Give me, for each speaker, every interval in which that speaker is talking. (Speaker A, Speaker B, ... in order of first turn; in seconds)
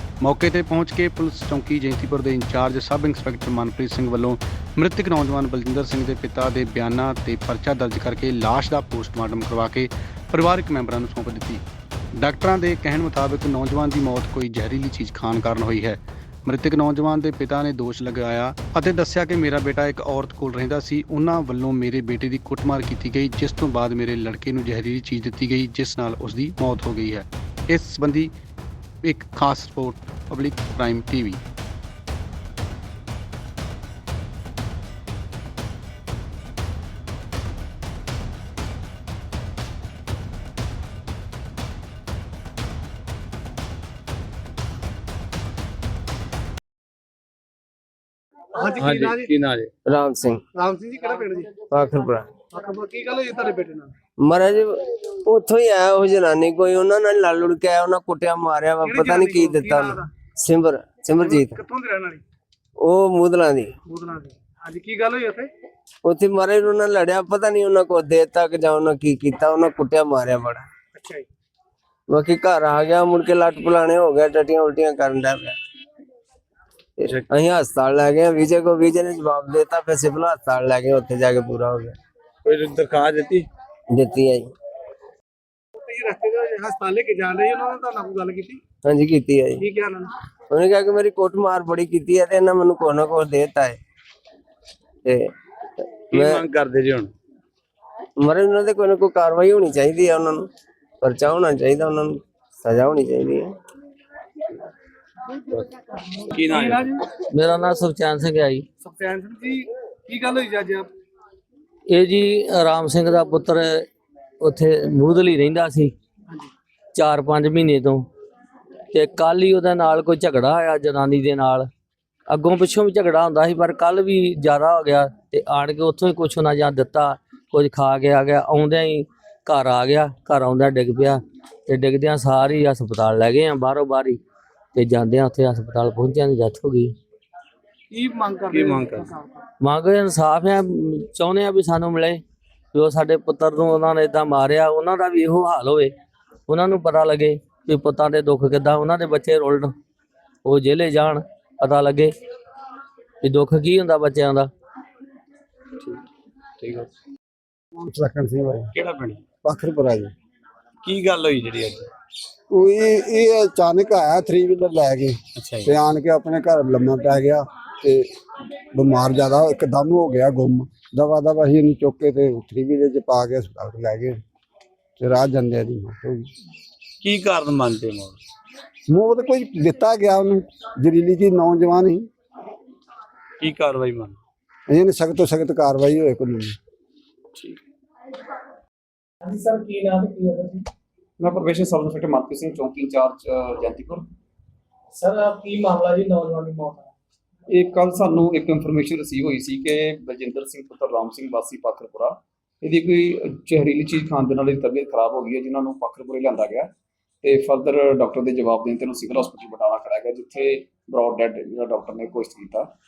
Speaker A: 0.2-11.6, 12.1-28.3, 29.0-31.4
Speaker B: 48.5-49.3, 50.5-51.5, 52.5-53.9, 58.8-60.0, 61.2-62.2, 63.9-65.5, 70.9-71.2, 85.8-88.6, 89.6-90.1, 106.1-107.0, 108.8-110.9, 137.9-139.3, 189.2-190.7, 194.9-196.9
Speaker C: 48.8-49.7, 82.4-83.5, 96.1-97.1, 106.3-106.9, 138.5-139.1, 156.6-156.9, 158.7-159.2, 160.8-161.9, 177.0-178.2, 183.4-184.2
Speaker D: 49.9-50.4, 51.7-52.3, 54.2-61.6, 62.8-63.7, 66.0-70.7, 72.1-75.6, 77.0-82.0, 83.9-84.5, 88.8-89.6, 90.5-93.8, 95.0-96.5, 98.2-100.5, 101.0-103.5
Speaker E: 107.3-108.7, 111.9-113.8, 114.4-115.9, 116.9-118.0, 118.9-121.7, 122.3-134.2, 134.7-136.9, 139.6-142.2, 142.7-145.9, 146.5-149.7, 150.4-152.1, 153.2-154.5
Speaker F: 157.8-158.7, 159.4-160.1, 162.5-168.1, 168.7-174.2, 175.0-176.2, 178.9-182.1, 184.7-186.6
Speaker G: 191.2-194.1, 197.5-206.7, 207.2-212.7